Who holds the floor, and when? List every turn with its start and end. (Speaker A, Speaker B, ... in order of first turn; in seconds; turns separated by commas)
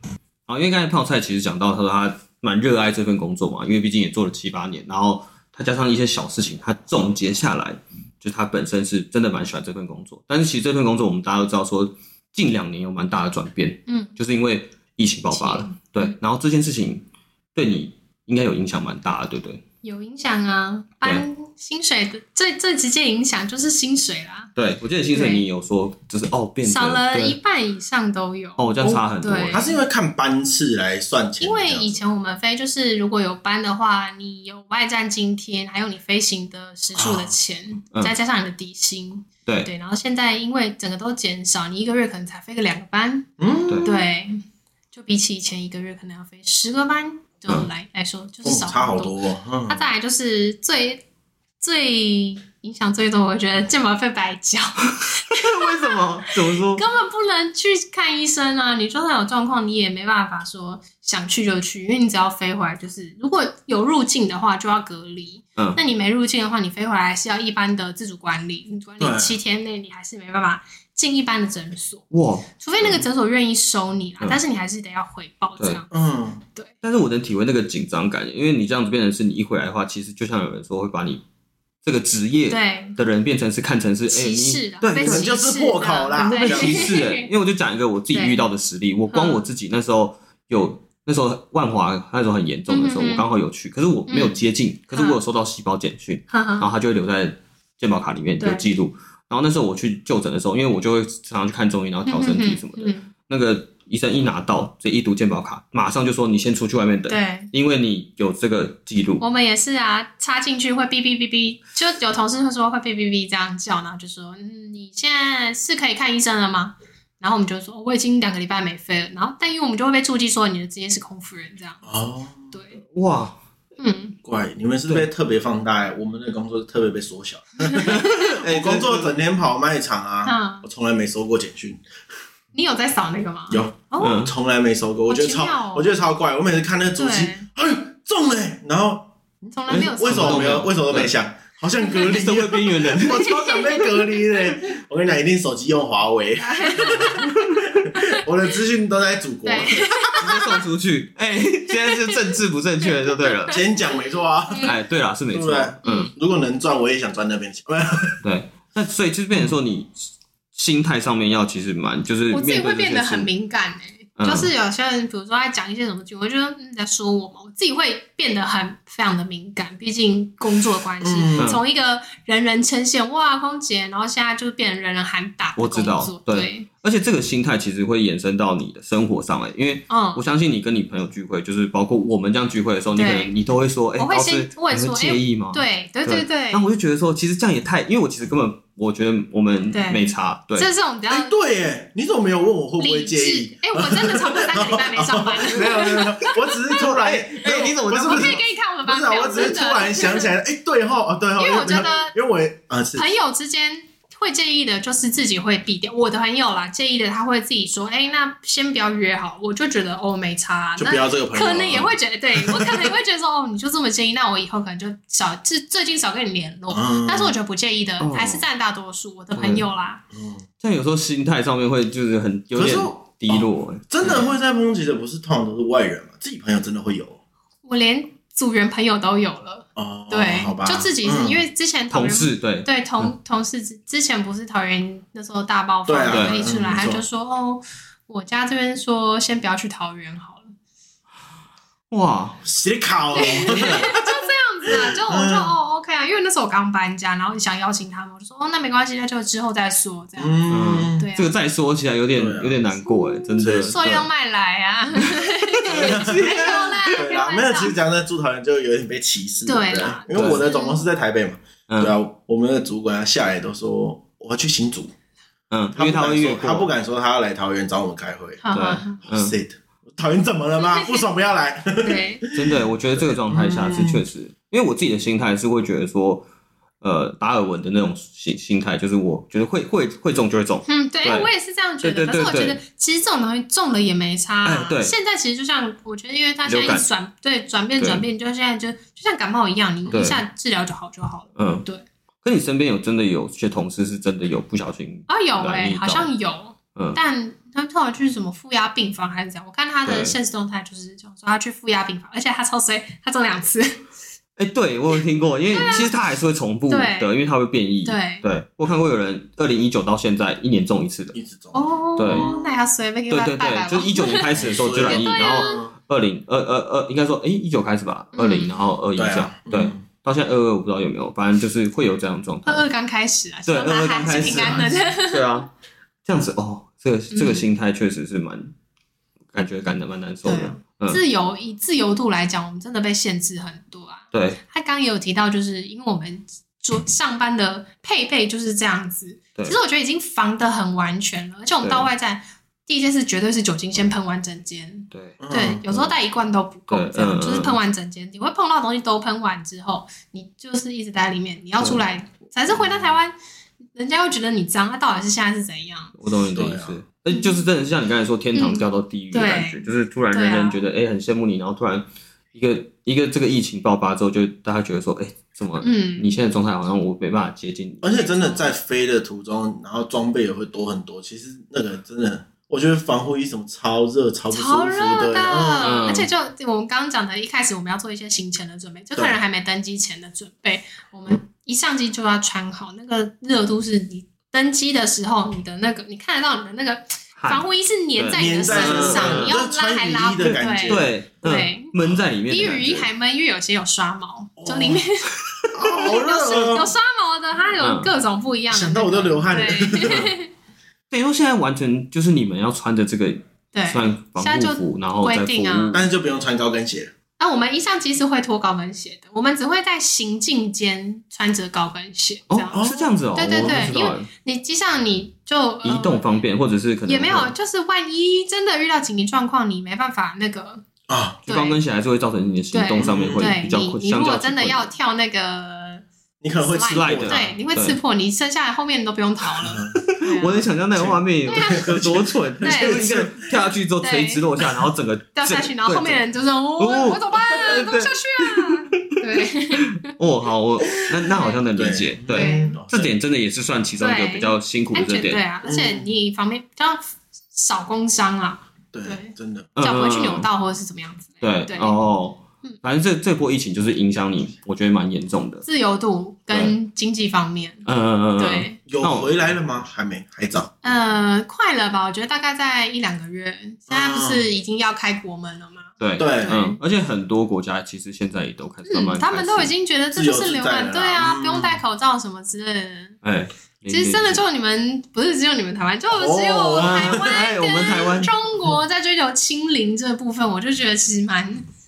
Speaker A: 0.5-19.6, Speaker B: 13.9-14.2, Speaker B: 15.3-16.1, Speaker B: 19.8-24.5, Speaker A: 24.6-27.4, Speaker B: 25.1-25.4, Speaker B: 26.6-29.8, Speaker A: 28.6-29.6, Speaker C: 29.5-32.0, Speaker B: 31.4-43.3, Speaker C: 37.0-37.4, Speaker C: 43.4-44.0, Speaker B: 43.8-44.4, Speaker B: 44.9-51.0, Speaker C: 48.4-49.9, Speaker B: 51.6-72.1, Speaker A: 55.3-56.9, Speaker C: 69.0-69.4, Speaker A: 72.1-73.0, Speaker B: 72.6-75.9, Speaker C: 75.9-76.4, Speaker A: 76.8-81.2, Speaker A: 81.8-85.3, Speaker B: 82.5-83.0, Speaker B: 84.1-87.3, Speaker C: 85.0-87.0, Speaker A: 86.2-109.2, Speaker B: 88.1-88.4, Speaker B: 89.1-89.5, Speaker B: 92.7-93.3, Speaker B: 94.1-95.2, Speaker B: 96.3-96.7, Speaker B: 98.4-98.7, Speaker B: 102.0-103.1, Speaker B: 107.1-107.5, Speaker B: 109.2-121.8, Speaker C: 121.8-122.5, Speaker B: 122.5-122.8, Speaker A: 122.8-123.4, Speaker B: 123.8-124.2, Speaker C: 124.2-131.8, Speaker B: 127.6-128.4, Speaker A: 127.8-129.2, Speaker B: 130.2-130.7, Speaker B: 132.5-134.2, Speaker C: 133.5-139.1, Speaker A: 134.0-134.3, Speaker B: 135.1-135.9, Speaker B: 137.0-137.5, Speaker B: 139.5-140.7, Speaker C: 139.7-150.3, Speaker A: 139.7-141.2, Speaker A: 142.0-143.3, Speaker B: 143.1-144.6, Speaker B: 146.4-147.2, Speaker A: 147.0-147.7, Speaker B: 147.9-148.3, Speaker B: 149.4-150.6, Speaker A: 150.2-153.6, Speaker B: 151.7-152.3, Speaker B: 152.9-154.8, Speaker C: 153.5-154.7, Speaker A: 154.6-156.1, Speaker C: 155.3-158.2, Speaker B: 155.8-156.1, Speaker A: 158.2-163.3, Speaker B: 162.3-176.7, Speaker A: 164.2-164.5, Speaker C: 171.0-171.6, Speaker A: 175.6-190.7, Speaker B: 179.9-180.2, Speaker B: 182.9-183.3, Speaker B: 184.0-186.6, Speaker B: 189.7-191.3, Speaker C: 191.1-203.1, Speaker B: 192.8-196.8, Speaker A: 196.7-198.4, Speaker B: 197.5-200.4, Speaker B: 201.4-202.2, Speaker B: 203.0-220.0, Speaker C: 210.8-212.9, Speaker C: 216.7-217.3, Speaker A: 218.0-218.5, Speaker A: 219.3-219.7, Speaker C: 220.1-220.4, Speaker A: 220.6-224.3, Speaker C: 222.6-227.2, Speaker B: 224.1-224.3, Speaker B: 227.7-240.5, Speaker C: 229.8-231.4, Speaker A: 231.9-233.1, Speaker C: 235.9-237.0, Speaker A: 236.1-236.4, Speaker A: 241.9-242.4, Speaker C: 242.4-244.1, Speaker B: 243.1-251.3, Speaker A: 243.2-243.9, Speaker C: 244.7-245.5, Speaker C: 250.2-251.1, Speaker A: 250.5-254.1, Speaker C: 252.1-252.6, Speaker B: 252.9-257.8, Speaker C: 253.4-253.9, Speaker A: 255.0-256.9, Speaker C: 255.7-264.9, Speaker B: 259.5-260.8, Speaker A: 260.1-260.4, Speaker A: 261.7-261.9, Speaker A: 265.5-266.7, Speaker C: 265.8-268.4, Speaker B: 268.4-269.0, Speaker A: 268.5-269.4, Speaker C: 269.0-274.0, Speaker B: 270.6-271.0, Speaker B: 271.8-272.3, Speaker A: 272.3-276.3, Speaker A: 276.8-281.3, Speaker B: 280.7-291.8, Speaker A: 281.8-282.6, Speaker A: 284.4-284.9, Speaker A: 286.5-286.9, Speaker A: 287.8-288.1, Speaker A: 289.9-290.2, Speaker A: 291.4-291.6, Speaker A: 292.2-296.1, Speaker B: 295.1-303.8, Speaker A: 299.9-300.2, Speaker A: 304.4-311.1, Speaker B: 305.5-305.9, Speaker B: 306.7-307.1, Speaker B: 307.9-308.2, Speaker C: 311.1-312.6, Speaker B: 311.5-315.6, Speaker A: 312.0-312.3, Speaker A: 313.1-322.6, Speaker C: 314.4-315.7, Speaker B: 318.1-318.6, Speaker C: 319.0-319.8, Speaker B: 322.5-325.3, Speaker A: 323.5-325.5, Speaker C: 324.1-324.7, Speaker A: 326.1-328.5, Speaker B: 327.1-327.5, Speaker A: 329.3-331.0, Speaker B: 330.2-353.1, Speaker A: 334.1-334.4, Speaker A: 341.6-341.9, Speaker A: 344.9-345.9, Speaker C: 345.2-345.6, Speaker A: 346.7-347.6, Speaker A: 351.6-351.8, Speaker A: 352.5-352.9, Speaker B: 353.8-355.9, Speaker A: 356.0-368.0, Speaker C: 356.3-356.8, Speaker B: 357.1-357.4, Speaker B: 358.4-360.6, Speaker B: 365.6-366.2, Speaker C: 367.8-375.7, Speaker B: 367.9-368.5, Speaker B: 374.3-391.7, Speaker A: 375.6-376.1, Speaker A: 387.2-389.4, Speaker C: 388.1-390.9, Speaker A: 390.7-392.9, Speaker B: 392.3-395.1, Speaker C: 394.4-394.9, Speaker C: 395.6-396.7, Speaker B: 395.6-400.3, Speaker A: 397.6-397.9, Speaker C: 398.5-400.1, Speaker A: 400.9-405.9, Speaker B: 403.5-405.8, Speaker C: 405.7-406.9, Speaker B: 407.2-416.0, Speaker A: 412.3-414.1, Speaker C: 412.5-413.7, Speaker A: 415.6-417.3, Speaker B: 416.9-420.7, Speaker C: 420.9-421.2, Speaker A: 421.3-424.7, Speaker B: 421.3-421.6, Speaker B: 422.5-425.9, Speaker C: 422.8-423.4, Speaker C: 426.2-427.4, Speaker B: 426.4-430.5, Speaker A: 426.7-427.8, Speaker C: 429.4-429.9, Speaker A: 429.8-436.0, Speaker C: 430.8-433.2, Speaker B: 431.3-431.8, Speaker B: 432.4-432.9, Speaker B: 433.8-434.2, Speaker B: 435.1-439.9, Speaker A: 436.6-439.0, Speaker A: 439.5-445.2, Speaker B: 441.0-441.4, Speaker C: 441.6-442.9, Speaker B: 442.1-442.6, Speaker B: 443.8-446.8, Speaker C: 445.4-445.9, Speaker B: 447.3-451.8, Speaker C: 448.7-449.5, Speaker A: 449.6-450.3, Speaker A: 451.2-455.5, Speaker B: 455.5-457.7, Speaker A: 457.7-459.4, Speaker B: 458.2-458.6, Speaker C: 458.7-460.5, Speaker B: 460.6-466.6, Speaker C: 463.7-464.3, Speaker A: 465.8-469.5, Speaker C: 466.0-466.4, Speaker B: 468.7-473.0, Speaker C: 469.9-471.6, Speaker A: 473.0-474.2, Speaker B: 473.7-481.5, Speaker C: 475.9-477.2, Speaker A: 476.6-478.2